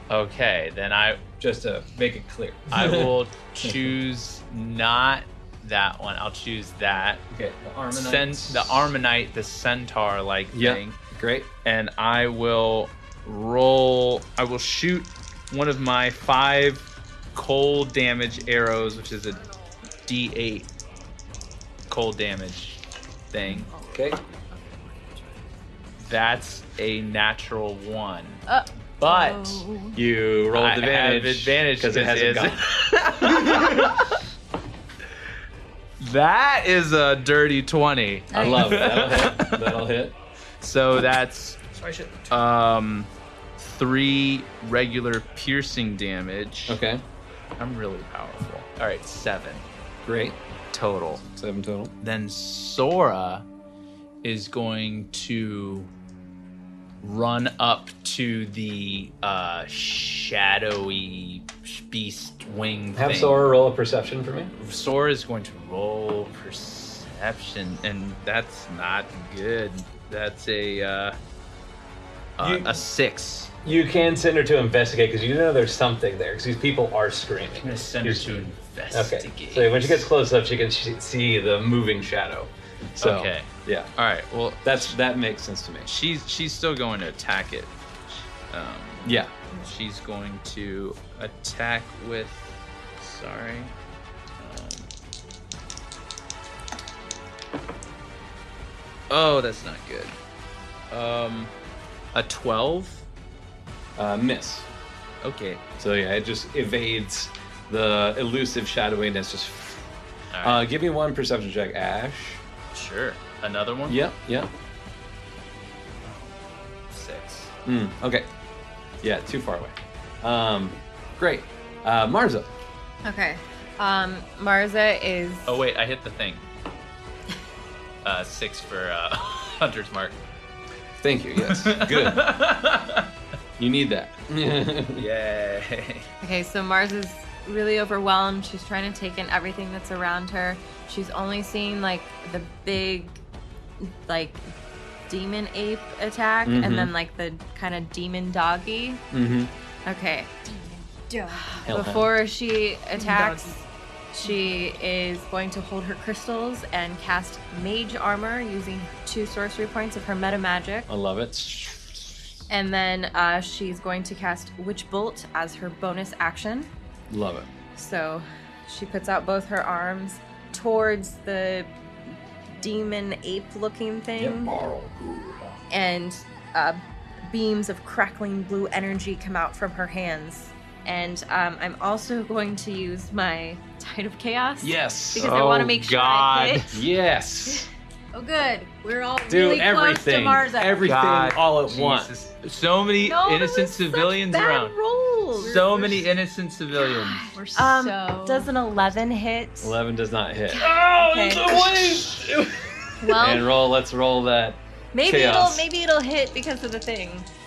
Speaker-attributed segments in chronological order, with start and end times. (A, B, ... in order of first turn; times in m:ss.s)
0:00.1-0:01.2 A
0:01.4-0:03.9 B
0:02.7-0:07.2 A
0:07.3-0:08.9 B
0:07.9-0:11.0 A
0:10.5-0:11.5 B
0:11.6-0:19.4 A
0:20.1-0:20.7 A
0:21.9-0:23.7 A
0:23.7-0:24.9 C
0:23.9-0:24.2 B
0:26.0-0:28.4 A
0:28.5-0:30.0 D
0:29.0-0:29.6 A
0:29.9-0:32.6 B
0:30.5-0:34.2 A
0:36.0-0:39.8 A
0:38.3-0:38.8 D
0:38.3-0:40.1 B
0:40.6-0:41.6 A
0:41.8-0:42.3 E
0:42.3-0:46.8 A
0:46.7-0:47.0 B
0:47.6-0:49.6 A
0:50.0-0:50.4 B
0:50.7-0:51.2 A
0:51.2-0:51.9 B
0:52.0-0:53.4 A
0:54.2-0:55.9 A
0:57.0-1:03.4 A
1:03.0-1:04.5 B
1:04.6-1:11.2 A
1:12.4-1:13.6 A
1:12.4-1:12.8 B
1:13.6-1:23.9 B
1:17.6-1:20.1 A
1:23.0-1:25.0 A
1:24.6-1:25.9 B
1:25.9-1:27.7 A
1:28.5-1:33.7 A
1:29.0-1:29.3 B
1:34.4-1:34.9 A
1:39.1-1:40.2 A
1:40.9-1:41.5 A
1:42.1-1:43.0 A
1:44.0-1:44.7 B
1:45.2-1:45.6 A
1:45.8-1:49.9 B
1:50.3-1:50.6 A
1:50.4-1:52.4 B
1:52.7-1:54.0 A
1:53.9-1:54.5 B
1:56.0-1:57.5 A
1:57.7-1:58.3 B
1:59.0-2:02.5 B
2:03.0-2:05.6 C
2:05.5-2:06.4 A
2:08.0-2:10.2 A
2:11.0-2:12.3 B
2:11.4-2:13.1 A
2:13.6-2:15.1 B
2:15.0-2:16.1 A
2:16.2-2:23.2 C
2:23.8-2:24.4 C
2:25.1-2:29.0 C
2:26.4-2:26.9 B
2:29.1-2:29.5 B
2:29.8-2:30.3 C
2:30.4-2:31.7 D
2:31.3-2:33.6 C
2:31.7-2:32.2 B
2:33.0-2:33.5 D
2:33.0-2:33.5 E
2:34.1-2:40.9 C
2:34.2-2:34.6 D
2:40.9-2:42.4 B
2:42.5-2:46.7 C
2:47.1-2:47.5 B
2:47.8-2:51.7 C
2:52.5-2:54.5 C
2:54.2-2:55.6 B
2:55.7-3:06.7 C
3:04.6-3:05.3 B
3:05.2-3:06.8 A
3:06.7-3:07.7 B
3:08.1-3:10.8 D
3:09.3-3:12.1 B
3:10.8-3:14.8 A
3:13.0-3:15.6 C
3:15.4-3:17.3 A
3:15.4-3:16.1 E
3:16.8-3:19.8 C
3:17.3-3:18.6 D
3:19.6-3:20.8 B
3:20.5-3:22.1 C
3:20.7-3:21.5 E
3:21.4-3:22.3 B
3:23.0-3:23.5 C
3:23.0-3:23.4 D
3:23.1-3:25.7 B
3:24.9-3:27.3 C